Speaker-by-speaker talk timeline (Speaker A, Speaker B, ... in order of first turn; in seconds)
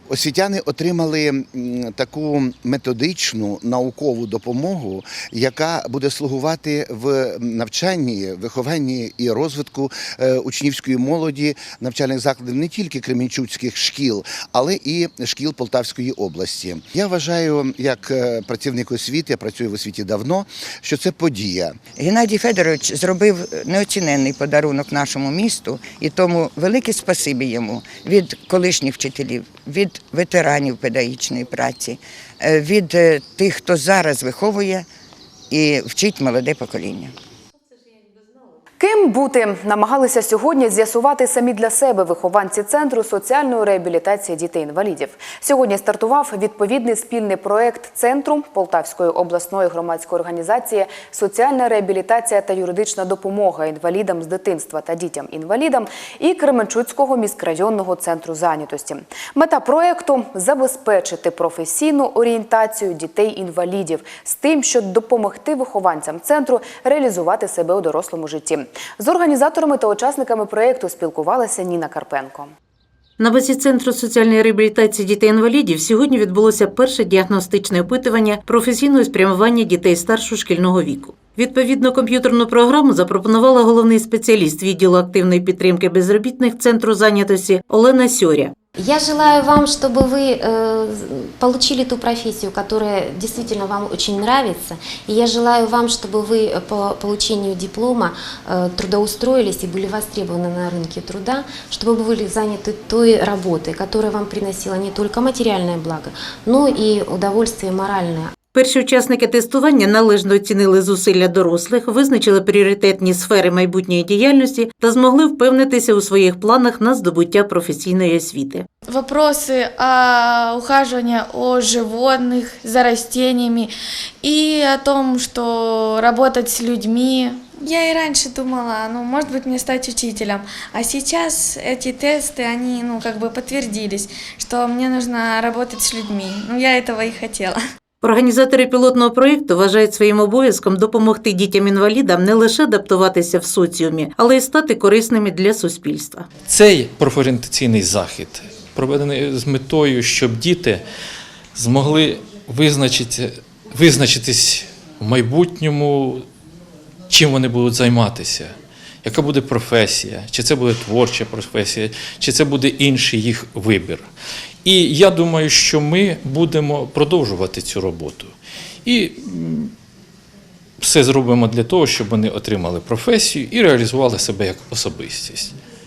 Speaker A: 0.1-21.8
Speaker B: 21.9-34.9, 35.5-37.1
Speaker C: 38.8-72.5
Speaker D: 73.2-88.5, 108.5-118.6, 138.0-146.2
Speaker E: 88.8-108.3
Speaker F: 118.9-123.7, 124.2-137.6
Speaker G: 146.5-150.8, 151.5-156.2, 157.1-158.5, 159.0-164.1, 164.6-168.3, 168.8-169.7, 170.8-175.5